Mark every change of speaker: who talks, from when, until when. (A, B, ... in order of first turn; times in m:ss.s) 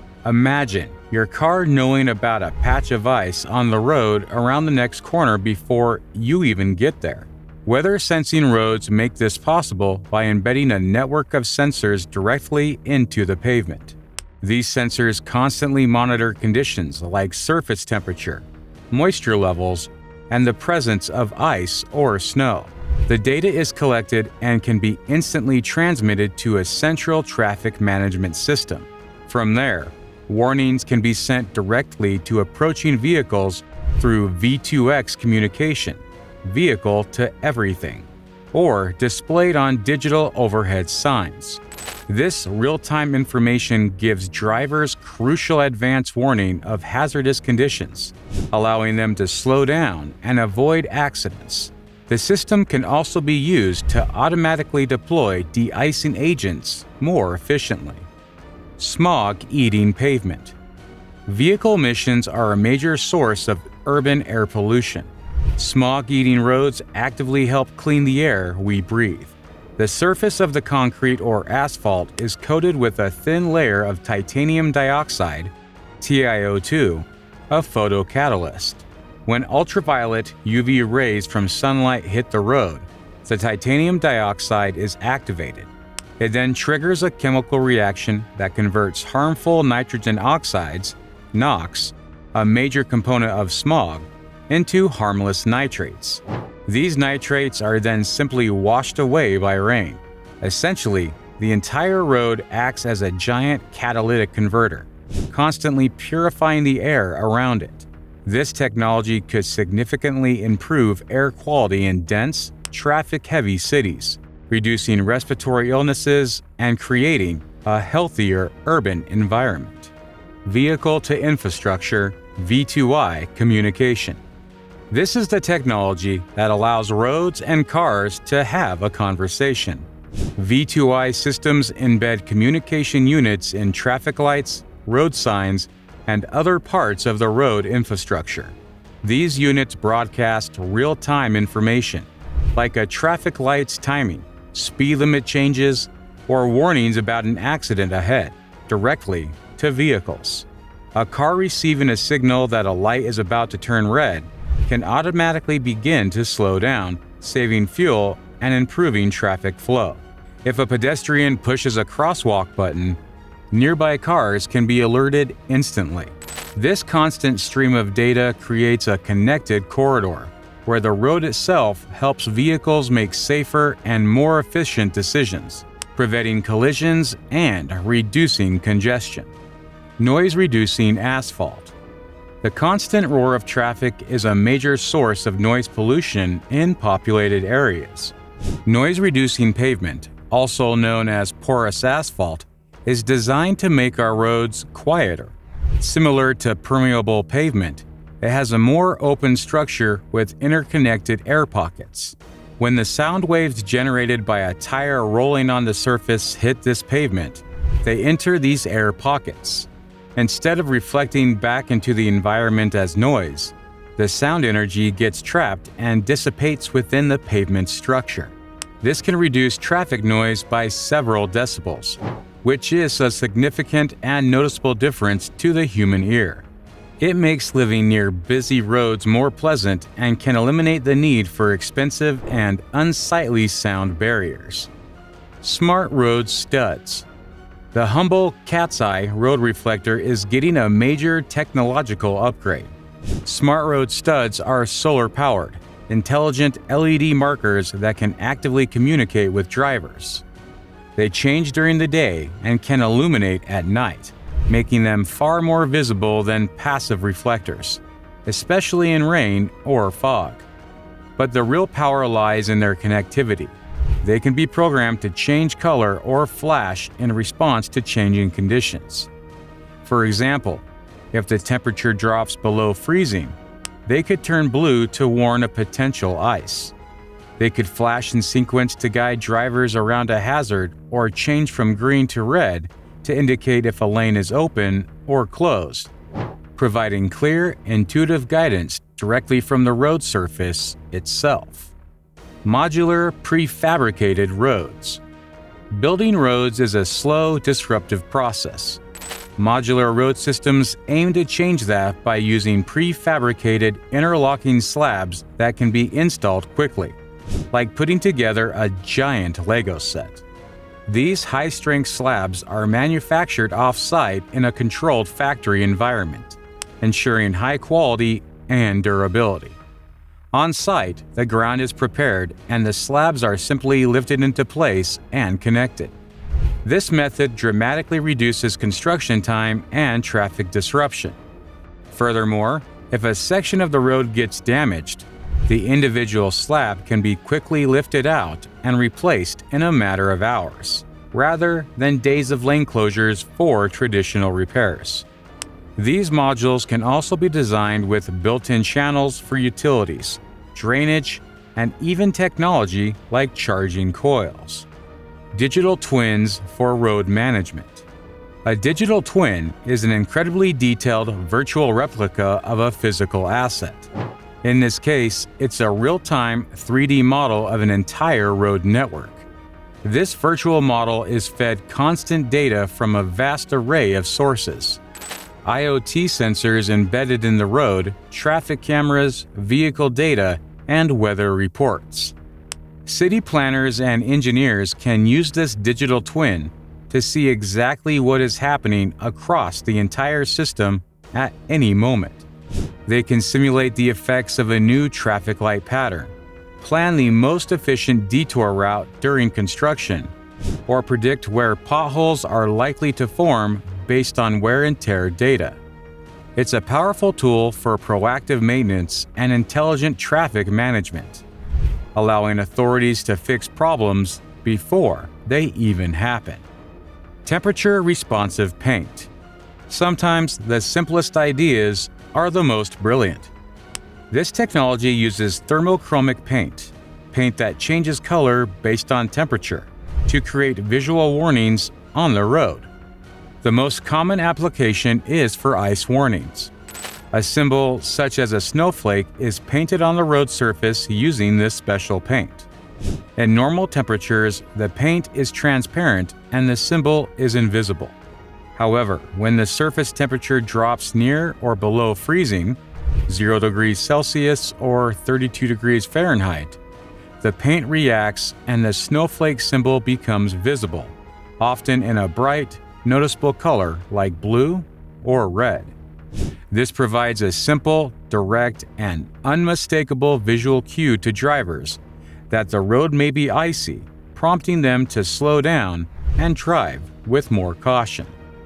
0:00.2-0:58.1 A
0:58.8-1:00.6 A
1:01.2-1:59.9 A
2:00.4-2:04.2 A
2:04.9-2:43.0 A
2:43.5-2:59.3 A
3:00.0-3:01.7 A
3:02.4-3:08.1 A
3:08.6-3:46.5 A
3:47.0-3:54.7 A
3:55.4-3:57.1 A
3:57.7-4:02.7 A
4:03.2-4:10.2 A
4:11.0-4:20.4 A
4:21.2-4:29.1 A
4:29.8-4:36.7 A
4:37.4-4:45.9 A
4:46.6-4:51.7 A
4:52.4-4:55.0 A
4:55.7-4:58.8 A
4:59.4-5:07.0 A
5:07.5-5:10.2 A
5:10.9-5:19.6 A
5:20.3-5:25.9 A
5:26.6-5:31.2 A
5:31.9-5:45.0 A
5:45.8-5:54.7 A
5:55.3-5:57.8 A
5:58.4-6:03.9 A
6:04.4-6:09.3 A
6:09.8-6:14.8 A
6:15.4-6:22.1 A
6:22.8-6:32.2 A
6:32.8-6:40.1 A
6:40.7-6:45.6 A
6:46.4-6:51.2 A
6:51.9-6:56.4 A
6:57.2-6:59.1 A
6:59.7-7:03.3 A
7:04.1-7:12.7 A
7:13.4-7:16.5 A
7:17.1-7:22.5 A
7:23.2-7:28.0 A
7:28.6-7:36.6 A
7:37.2-7:45.7 A
7:46.5-7:51.8 A
7:52.3-7:58.2 A